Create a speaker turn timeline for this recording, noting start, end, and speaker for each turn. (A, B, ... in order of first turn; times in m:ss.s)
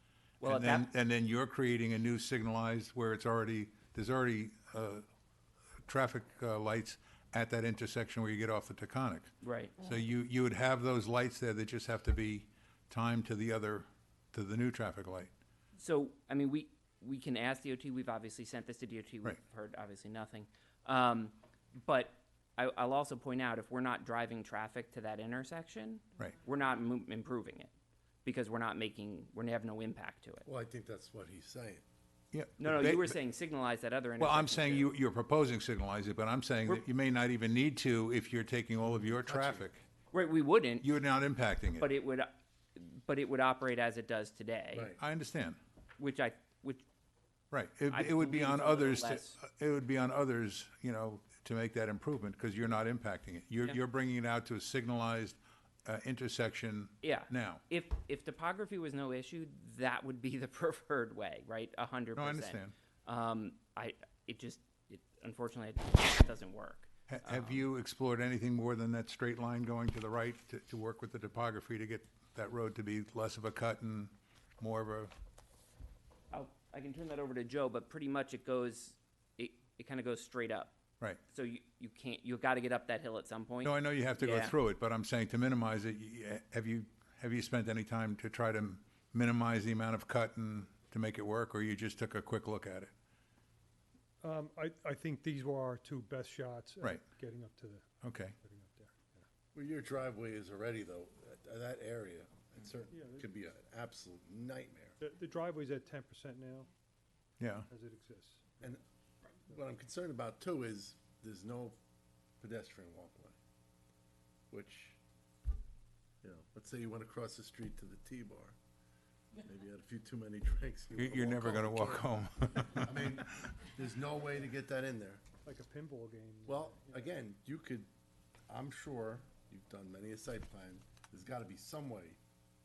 0:00.4-0:00.9 A
0:00.4-0:05.0 B
0:05.8-0:15.3 B
0:09.4-0:09.7 A
0:15.8-0:27.7 A
0:28.2-0:30.5 A
0:30.4-0:31.8 C
0:32.3-0:33.2 B
0:32.6-0:34.9 A
0:34.2-0:39.8 B
0:39.2-0:39.6 C
0:40.1-0:40.9 A
0:40.8-0:41.9 B
0:41.8-0:44.9 A
0:44.7-0:45.0 C
0:45.0-0:45.6 B
0:46.0-0:46.8 A
0:47.5-0:57.6 B
0:47.9-0:49.4 A
0:57.0-1:07.6 A
1:02.2-1:02.7 B
1:07.1-1:15.1 B
1:16.3-1:20.8 A
1:21.3-1:24.6 A
1:23.6-1:32.9 B
1:34.2-1:39.2 D
1:38.0-1:38.3 B
1:39.5-1:45.0 C
1:42.9-1:43.3 D
1:45.0-1:46.7 D
1:47.4-1:47.7 B
1:47.7-1:48.7 D
1:49.5-1:51.8 C
1:52.4-1:53.4 C
1:54.5-1:55.0 C
1:56.2-1:58.6 C
1:59.4-2:05.2 C
2:01.0-2:03.2 B
2:05.4-2:07.1 D
2:06.4-2:07.9 C
2:08.5-2:12.2 C